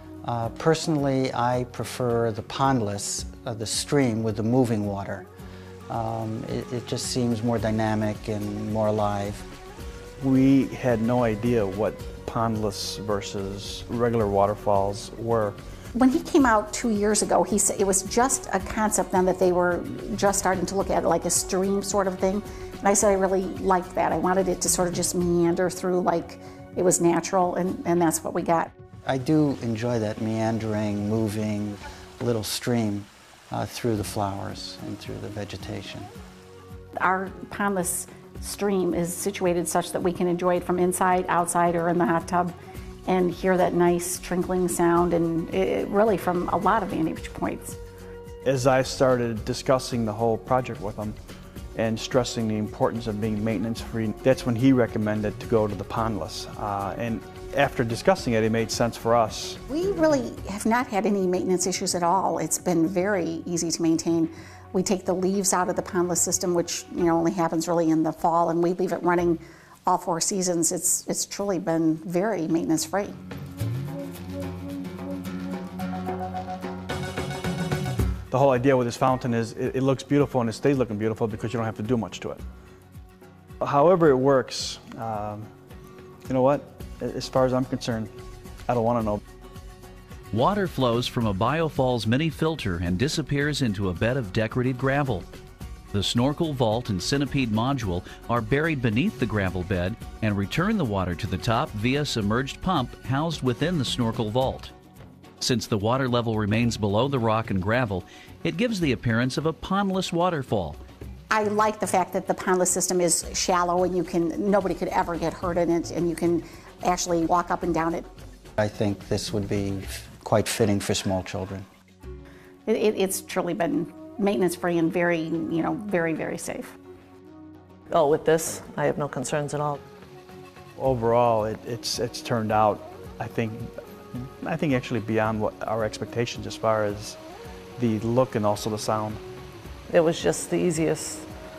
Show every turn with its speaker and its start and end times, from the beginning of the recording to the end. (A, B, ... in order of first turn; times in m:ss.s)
0:00.2-0:05.3 A
0:05.9-0:09.5 A
0:10.2-0:15.6 B
0:16.0-0:28.7 C
0:29.1-0:36.1 A
0:37.0-0:42.5 C
0:43.1-0:47.8 C
0:48.4-0:51.2 B
0:51.8-0:59.6 B
0:59.7-1:13.1 C
1:18.3-1:22.4 B
1:23.6-1:25.5 B
1:26.3-1:28.1 B
1:28.7-1:29.2 B
1:30.3-1:35.3 D
1:35.9-1:44.7 D
1:45.4-1:50.8 D
1:51.3-1:58.1 C
1:58.6-2:01.7 A
2:02.7-2:06.8 C
2:07.9-2:09.8 E
2:10.8-2:17.2 B
2:17.8-2:19.2 B
2:19.9-2:21.3 E